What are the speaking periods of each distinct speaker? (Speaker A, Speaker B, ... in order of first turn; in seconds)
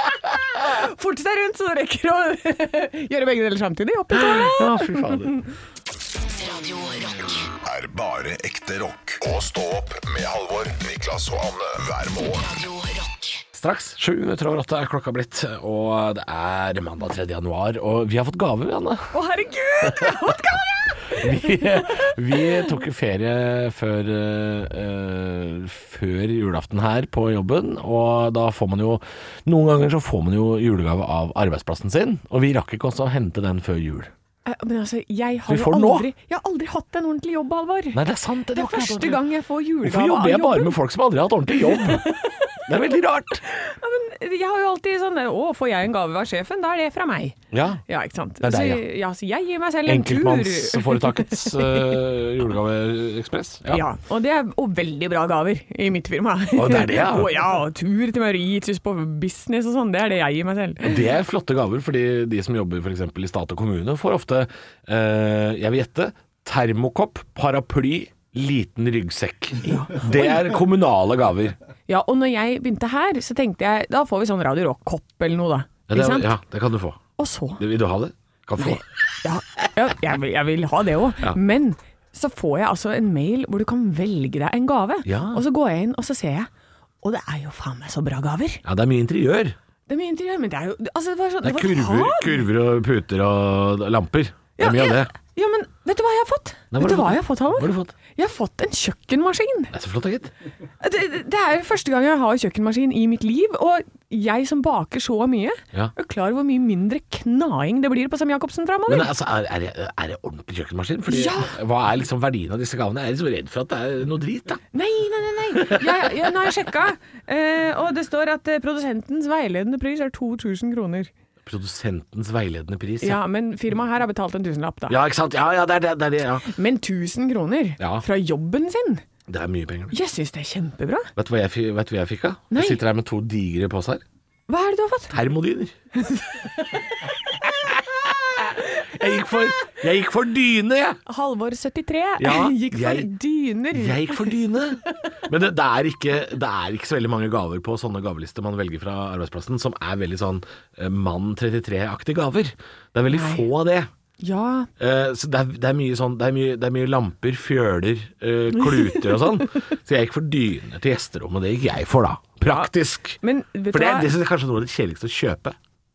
Speaker A: 0.6-5.5, 19.1-22.7, 34.5-38.0, 38.5-40.8, 41.6-42.6, 43.4-52.0, 53.7-61.0, 69.7-70.4, 71.9-76.3, 77.2-77.6, 78.6-86.5, 87.0-88.6, 89.9-92.5, 94.6-99.7, 100.8-109.1, 111.1-111.5, 114.7-121.1, 123.0-125.0, 126.4-129.0, 129.9-131.1, 132.5-132.8, 134.5-135.2, 136.0-136.5, 141.1-145.0, 153.1-153.4, 154.2-154.7, 162.5-164.1
Speaker B: 4.1-5.4, 13.5-19.1, 19.8-20.4, 21.1-34.1, 35.5-36.1, 37.9-39.2, 39.8-42.0, 42.7-43.4, 47.5-47.8, 48.4-48.8, 49.9-53.8, 56.5-57.4, 60.8-71.5, 75.9-77.0, 77.6-78.8, 85.0-85.4, 88.6-89.5, 91.4-95.1, 96.7-97.9, 99.7-100.3, 108.9-114.6, 115.5-116.3, 121.4-123.2, 124.9-126.5, 127.8-128.0, 129.3-129.9, 131.2-134.0, 135.1-135.7, 137.4-141.0, 142.2-143.1, 143.7-153.9, 154.8-163.2, 163.7-165.6
Speaker C: 6.2-7.5, 12.2-13.4
Speaker D: 7.6-12.5